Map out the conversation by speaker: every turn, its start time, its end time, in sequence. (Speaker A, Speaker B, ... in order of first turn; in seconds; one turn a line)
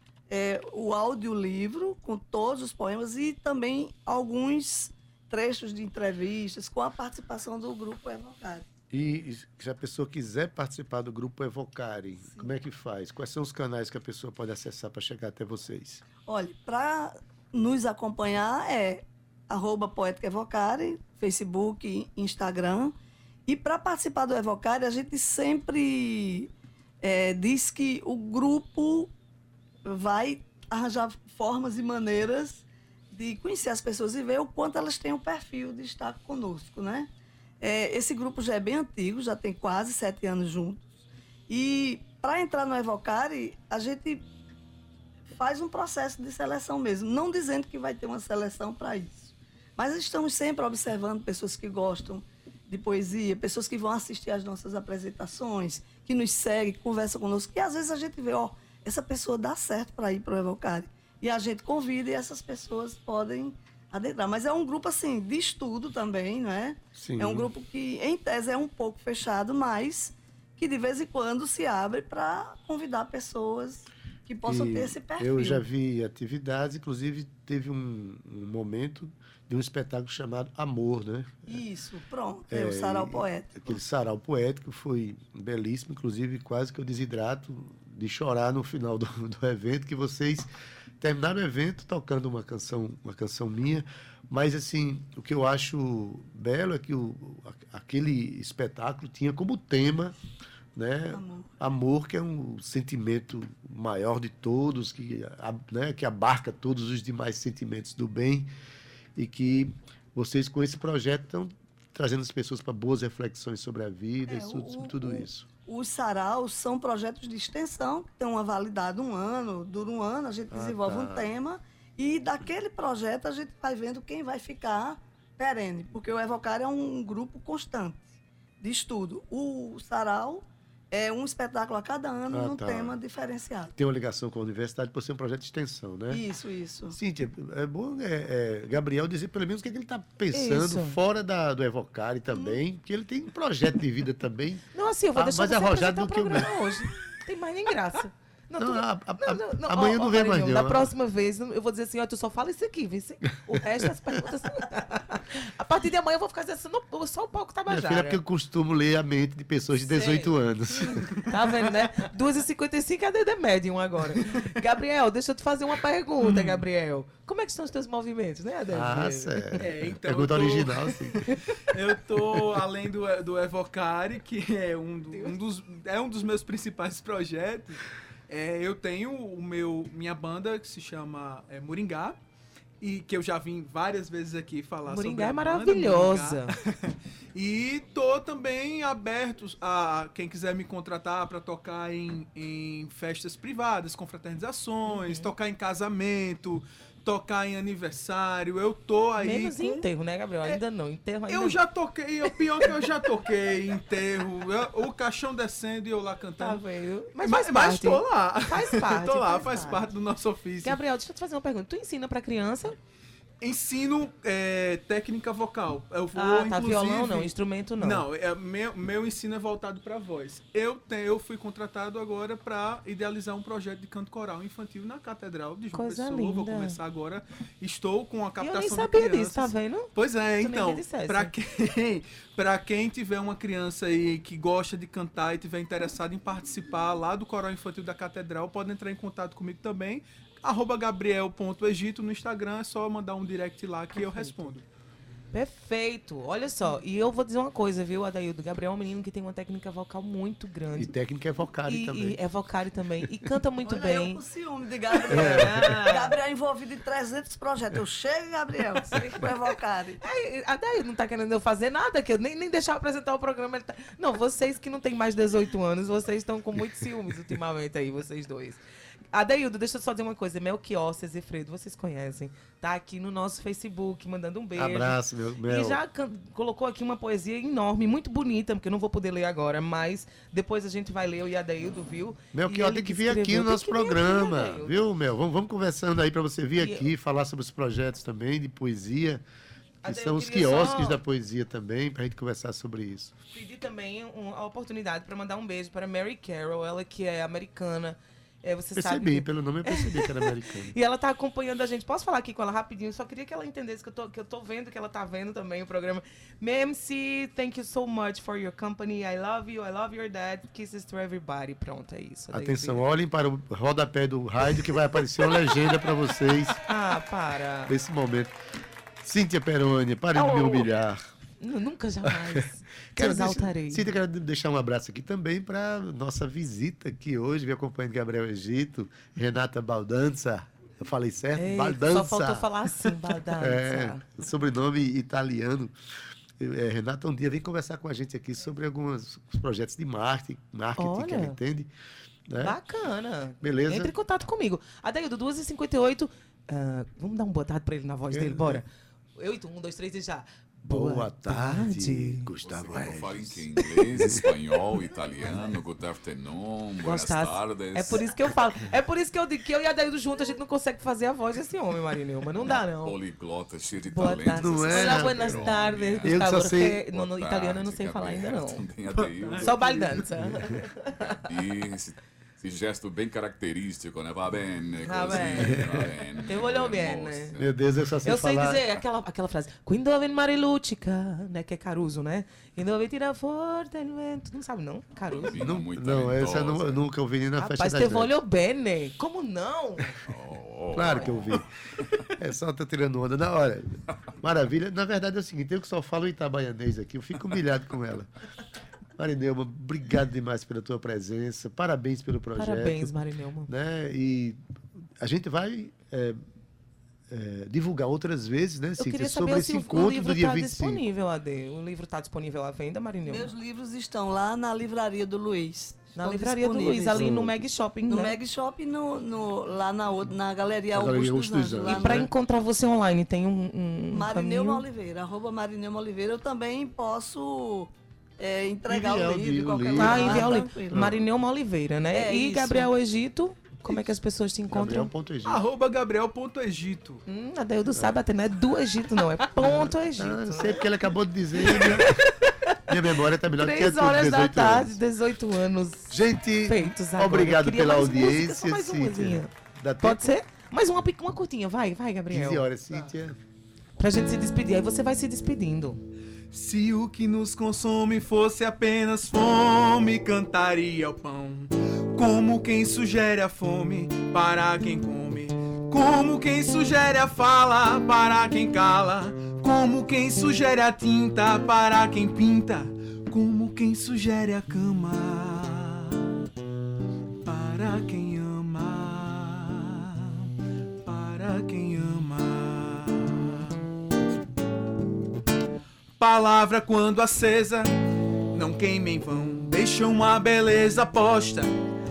Speaker A: 0.3-8.7
Speaker B: 8.9-16.0
Speaker A: 12.2-12.5
Speaker A: 16.2-22.9
Speaker A: 23.5-26.5
Speaker A: 27.0-29.1
Speaker A: 29.9-37.1
Speaker A: 37.6-40.9
Speaker A: 41.5-44.2
Speaker A: 45.3-75.6
Speaker B: 67.0-67.5
Speaker B: 74.5-81.6
Speaker A: 81.5-83.7
Speaker B: 82.5-100.2
Speaker B: 100.8-108.5
Speaker A: 101.1-101.6
Speaker B: 109.2-115.5
Speaker A: 114.3-128.1
Speaker B: 120.5-121.3
Speaker A: 128.6-133.7
Speaker B: 132.3-133.0
Speaker B: 133.8-136.2
Speaker A: 136.1-136.9
Speaker B: 136.9-146.5
Speaker C: 140.3-141.0
Speaker A: 142.3-142.6
Speaker C: 144.7-158.2
Speaker B: 148.6-150.9
Speaker B: 157.7-161.2
Speaker C: 159.8-160.3
Speaker C: 161.2-169.6
Speaker D: 166.2-166.6
Speaker B: 168.7-171.2
Speaker D: 169.6-171.2
Speaker D: 171.7-182.2
Speaker D: 182.8-199.9
Speaker C: 184.8-186.5
Speaker C: 194.9-195.3
Speaker C: 199.2-201.6
Speaker D: 201.3-206.6
Speaker C: 202.2-202.8
Speaker C: 206.4-209.9
Speaker D: 207.2-210.8
Speaker C: 210.6-212.8
Speaker D: 213.4-244.7
Speaker C: 216.1-218.1
Speaker C: 225.7-226.8
Speaker C: 228.4-231.3
Speaker C: 243.9-244.3
Speaker C: 245.3-250.9
Speaker B: 250.7-252.2
Speaker C: 251.7-254.2
Speaker A: 253.6-260.0
Speaker C: 254.9-256.1
Speaker B: 255.1-255.8
Speaker B: 258.9-259.3
Speaker C: 260.0-268.6
Speaker C: 269.1-284.8
Speaker B: 274.6-275.8
Speaker B: 282.3-289.2
Speaker C: 286.6-286.9
Speaker C: 289.8-291.0
Speaker B: 289.9-293.1
Speaker C: 293.3-312.8
Speaker B: 298.7-300.7
Speaker B: 312.3-316.6
Speaker C: 316.6-317.7
Speaker B: 317.7-318.3
Speaker B: 319.0-321.0
Speaker C: 321.4-323.9
Speaker B: 322.1-322.4
Speaker B: 322.9-335.7
Speaker C: 331.3-334.1
Speaker B: 336.4-341.7
Speaker C: 340.8-341.4
Speaker B: 342.3-342.6
Speaker C: 342.4-352.3
Speaker B: 343.4-343.9
Speaker B: 348.1-348.6
Speaker B: 350.6-353.4
Speaker E: 352.4-358.1
Speaker C: 353.6-354.2
Speaker B: 353.9-354.2
Speaker C: 356.8-363.0
Speaker E: 362.4-370.6
Speaker C: 363.8-368.6
Speaker B: 364.3-365.5
Speaker B: 366.0-366.8
Speaker D: 369.2-369.5
Speaker C: 369.4-371.2
Speaker E: 371.1-377.5
Speaker C: 374.8-375.7
Speaker B: 375.4-375.9
Speaker C: 376.3-377.3
Speaker B: 377.4-378.6
Speaker C: 378.0-385.4
Speaker E: 385.1-386.8
Speaker B: 385.3-388.2
Speaker C: 387.4-390.0
Speaker E: 390.1-392.0
Speaker B: 390.7-391.5
Speaker C: 390.8-391.1
Speaker B: 392.1-398.1
Speaker B: 398.9-402.9
Speaker C: 402.4-403.5
Speaker B: 403.5-404.4
Speaker B: 405.0-406.2
Speaker B: 407.1-410.8
Speaker C: 408.8-413.3
Speaker A: 413.1-417.1
Speaker C: 415.9-418.2
Speaker B: 416.9-417.4
Speaker A: 417.9-422.1
Speaker B: 420.7-422.1
Speaker C: 421.6-424.6
Speaker A: 423.9-430.9
Speaker B: 428.7-431.0
Speaker C: 429.8-434.9
Speaker A: 431.9-432.7
Speaker B: 434.5-435.4
Speaker D: 435.2-437.0
Speaker C: 437.1-440.6
Speaker B: 437.7-438.0
Speaker B: 439.4-442.0
Speaker C: 441.4-442.7
Speaker B: 442.7-444.8
Speaker C: 443.3-452.4
Speaker B: 445.9-450.1
Speaker B: 452.1-453.2
Speaker C: 453.8-455.8
Speaker D: 456.3-476.1
Speaker D: 477.2-480.3
Speaker D: 480.8-483.5
Speaker D: 486.0-487.7
Speaker D: 488.3-491.5